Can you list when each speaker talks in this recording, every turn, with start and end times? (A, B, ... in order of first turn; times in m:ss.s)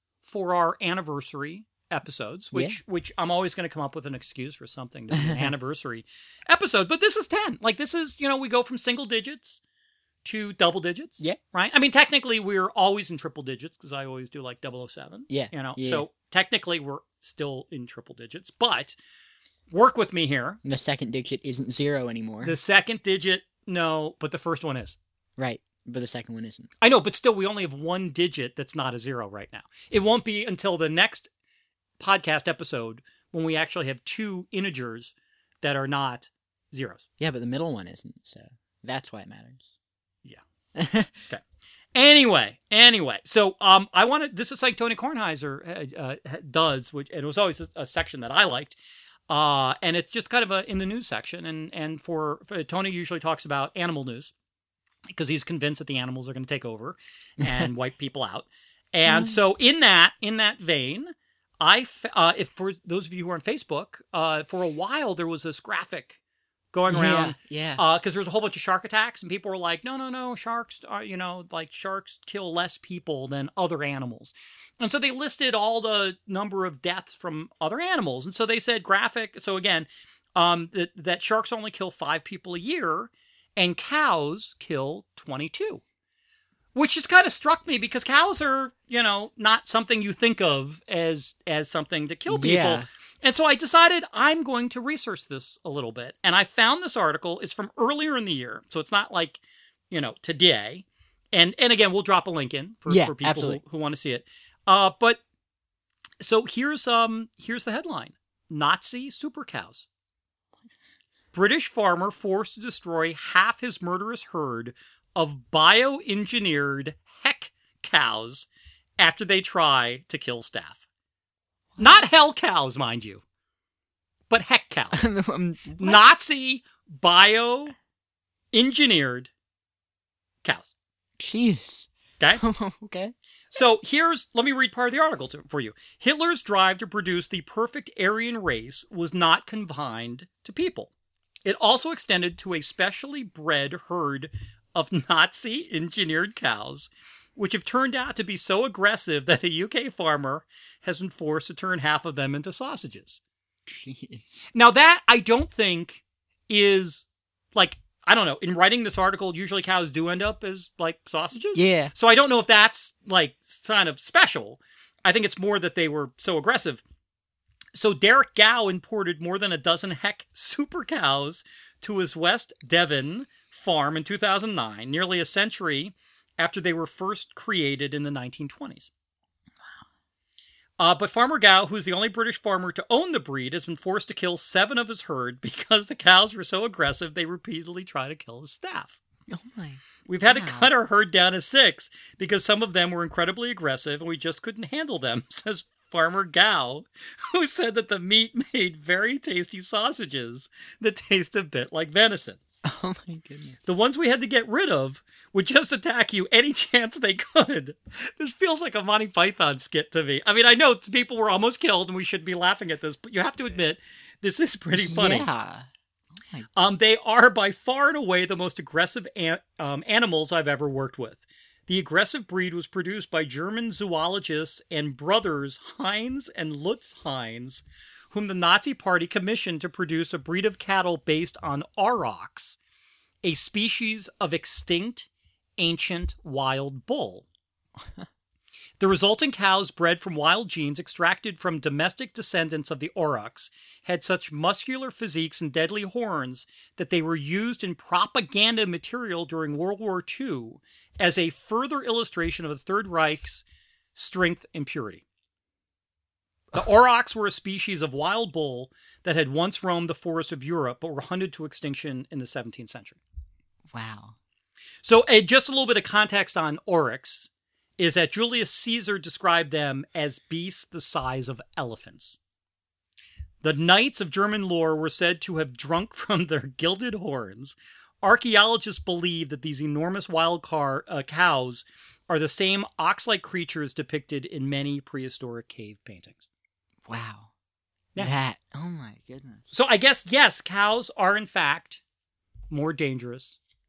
0:00.2-0:09.6 A
0:05.1-0:05.5 B
0:10.2-0:19.0 A
0:15.3-0:16.1 B
0:19.7-0:20.6 A
0:20.6-0:22.6 B
0:22.4-0:25.0 A
0:25.4-0:26.7 B
0:26.8-0:31.3 A
0:32.0-0:37.0 A
0:37.2-0:39.7 B
0:40.8-0:41.1 B
0:42.0-0:48.8 A
0:49.3-0:54.3 A
0:55.1-1:06.2 A
0:57.4-0:57.7 B
0:59.1-0:59.4 B
1:06.7-1:25.8 A
1:06.9-1:07.8 B
1:26.8-1:45.2 A
1:32.3-1:32.9 B
1:42.9-1:43.6 B
1:46.2-1:49.9 A
1:51.3-2:00.8 A
2:01.8-2:03.2 A
2:04.3-2:05.0 A
2:04.9-2:06.0 B
2:05.8-2:07.7 A
2:08.5-2:09.3 A
2:10.4-2:10.7 A
2:11.2-2:13.1 B
2:13.5-2:20.9 A
2:21.4-2:33.2 A
2:33.7-2:34.5 B
2:34.5-2:46.8 A
2:41.5-2:41.9 B
2:47.8-2:58.9 A
3:00.8-3:09.0 A
3:09.3-3:10.7 B
3:10.1-3:22.4 A
3:22.6-3:23.6 B
3:23.7-3:35.3 A
3:34.8-3:35.7 B
3:36.2-3:36.5 B
3:36.6-3:52.6 A
3:53.2-3:57.3 A
3:57.8-3:58.1 B
3:58.8-4:13.4 A
4:14.0-4:15.0 A
4:16.5-4:23.0 A
4:23.7-4:24.2 B
4:24.8-4:32.2 A
4:33.4-4:46.3 A
4:46.9-4:47.3 B
4:48.0-4:49.5 B
4:49.5-4:51.8 A
4:52.5-4:53.4 A